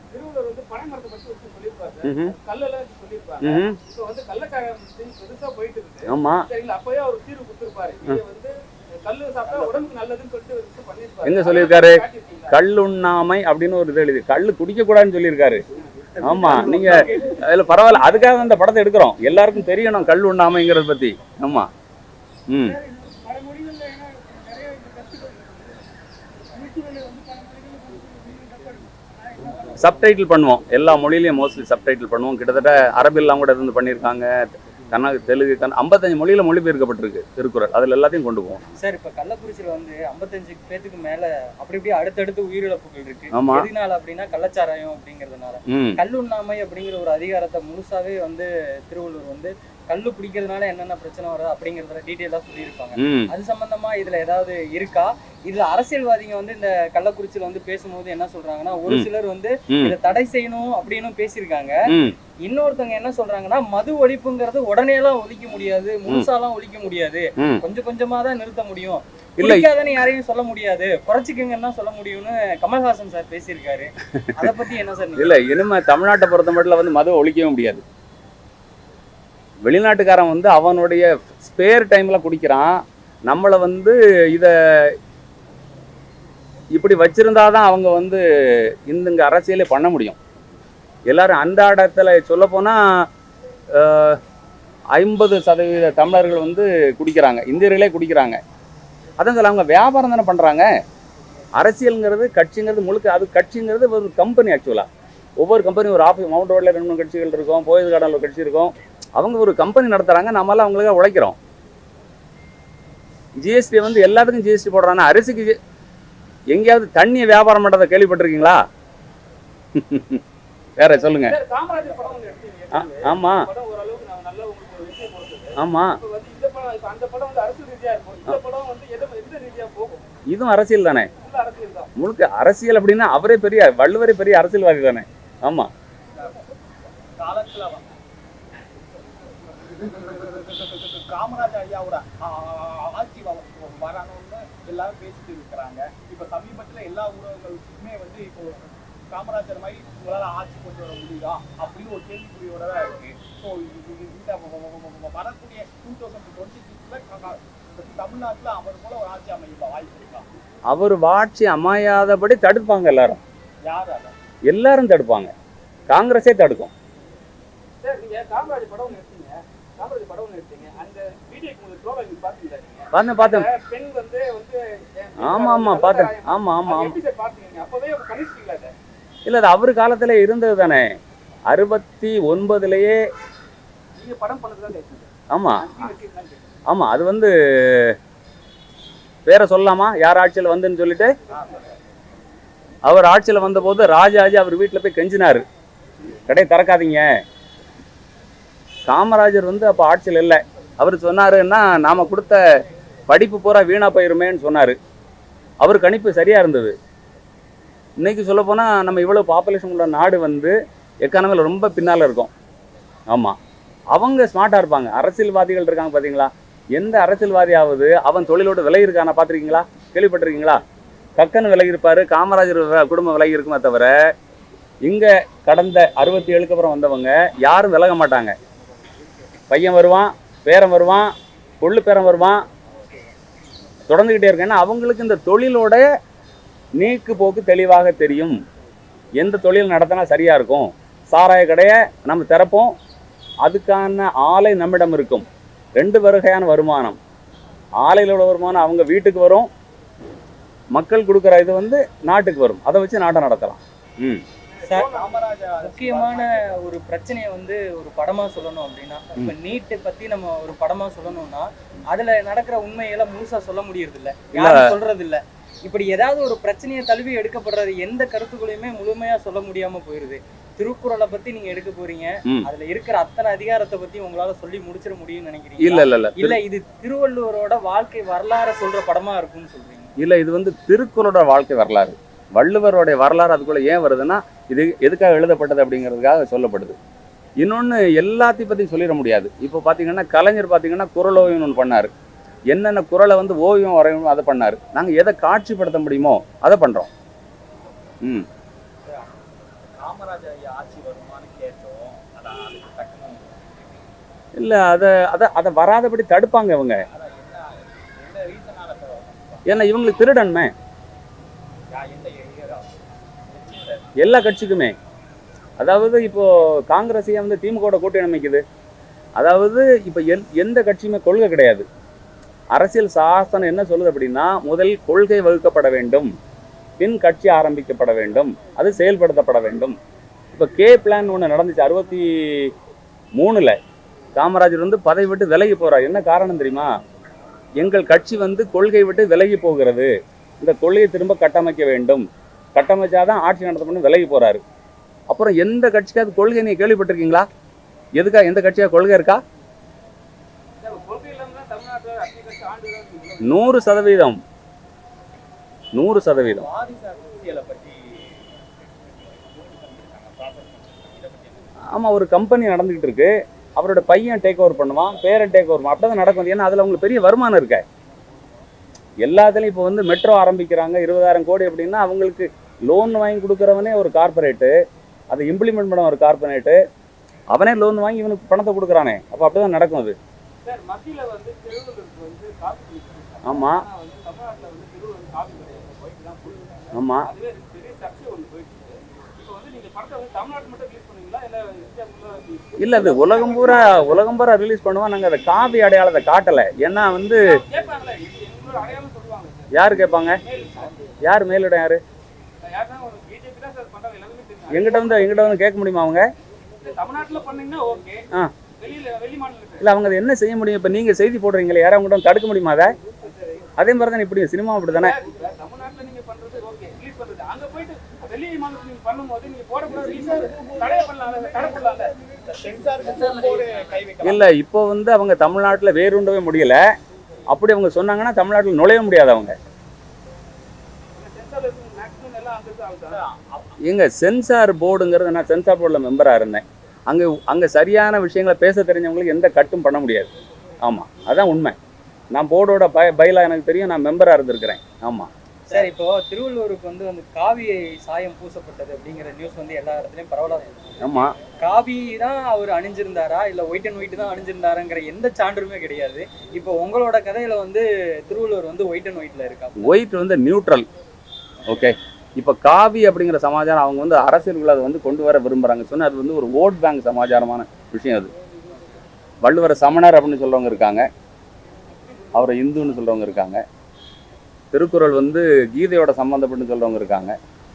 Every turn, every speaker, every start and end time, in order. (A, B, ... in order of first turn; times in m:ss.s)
0:00.1-0:12.6 A
0:02.0-0:02.4 B
0:03.4-0:03.8 B
0:06.1-0:06.5 B
0:11.2-0:15.6 B
0:16.2-0:21.7 B
0:16.3-0:17.4 A
0:22.5-0:22.8 B
0:22.6-0:25.8 A
0:26.5-0:29.8 A
0:29.8-0:38.6 B
0:38.8-1:01.8 C
0:43.3-0:43.7 B
0:45.7-0:46.0 B
0:53.0-0:53.3 B
0:59.7-1:00.0 B
1:01.9-1:02.2 B
1:02.4-1:15.4 C
1:07.4-1:07.6 B
1:09.4-1:09.7 B
1:15.2-1:17.8 B
1:19.6-1:25.0 B
1:26.7-1:30.2 B
1:31.1-1:32.8 B
1:33.7-1:34.2 B
1:35.0-1:38.4 B
1:39.2-1:40.7 B
1:41.6-1:44.9 B
1:45.4-1:51.4 B
1:53.4-1:55.6 B
1:56.5-1:58.6 B
1:59.8-2:00.2 B
2:00.8-2:01.4 B
2:01.2-2:10.0 A
2:02.7-2:03.5 B
2:05.6-2:06.0 B
2:10.3-2:11.1 B
2:11.2-2:11.9 A
2:12.0-2:15.7 B
2:17.2-2:18.0 D
2:19.9-2:40.3 D
2:40.7-2:43.2 B
2:43.7-2:44.1 D
2:44.5-2:45.3 B
2:45.9-2:46.7 B
2:47.8-2:58.7 A
2:52.9-2:53.5 B
2:55.2-2:57.0 B
2:59.3-3:01.0 B
3:01.5-3:03.0 B
3:04.0-3:06.5 A
3:05.3-3:05.7 B
3:06.7-3:08.0 B
3:09.3-3:11.1 B
3:12.8-3:15.4 B
3:16.3-3:17.1 B
3:18.9-3:22.4 B
3:23.1-3:24.8 B
3:25.6-3:26.8 B
3:28.0-3:32.3 B
3:33.1-3:33.4 B
3:33.9-3:40.6 B
3:41.2-3:44.0 B
3:44.8-3:48.4 B
3:49.5-3:52.4 B
3:53.9-3:55.9 B
3:56.8-3:58.4 B
3:59.2-4:02.8 B
4:03.4-4:05.3 B
4:05.8-4:07.0 B
4:07.8-4:09.5 B
4:10.7-4:14.2 B
4:14.6-4:14.9 C
4:14.6-4:15.1 A
4:14.8-4:16.5 D
4:15.6-4:39.9 C
4:24.3-4:24.8 B
4:35.6-4:36.4 B
4:40.0-4:46.8 B
4:47.4-4:51.9 B
4:52.5-4:56.9 B
4:58.8-5:03.6 D
5:04.4-5:06.8 B
5:06.9-5:09.5 D
5:09.4-5:10.5 B
5:11.7-5:13.9 D
5:14.0-5:14.8 B
5:15.6-5:18.4 B
5:19.2-5:21.6 B
5:22.5-5:26.1 B
5:26.8-5:29.8 B
5:30.3-5:32.5 B
5:33.2-5:33.6 B
5:34.2-5:36.7 B
5:37.6-5:42.0 B
5:42.6-5:44.4 B
5:45.1-5:47.3 B
5:48.0-5:49.2 B
5:50.6-5:53.6 A
5:53.2-5:54.2 B
5:55.8-5:56.5 B
5:56.4-6:01.5 D
6:01.7-6:07.6 B
6:09.0-6:14.6 B
6:15.1-6:16.6 B
6:17.3-6:20.0 B
6:20.4-6:34.1 A
6:23.2-6:23.6 B
6:26.7-6:27.1 B
6:32.6-6:37.4 B
6:37.2-6:39.5 A
6:39.5-6:40.2 B
6:40.2-6:40.9 A
6:41.0-6:41.8 B
6:42.4-6:45.4 A
6:44.5-6:46.1 B
6:46.6-6:49.7 A
6:49.6-6:52.7 B
6:53.0-6:53.5 A
6:53.6-6:55.0 B
6:54.7-7:01.9 A
6:59.7-7:01.6 D
7:02.2-7:04.3 D
7:04.0-7:06.6 B
7:07.3-7:09.4 B
7:11.0-7:13.0 A
7:12.9-7:13.6 D
7:13.6-7:20.1 B
7:20.6-7:21.6 B
7:22.1-7:25.1 B
7:25.5-7:30.7 C
7:30.8-7:31.2 B
7:31.4-7:39.7 C
7:39.6-7:40.7 B
7:41.5-7:48.1 B
7:49.2-7:50.9 B
7:52.1-7:53.4 B
7:54.5-7:57.2 B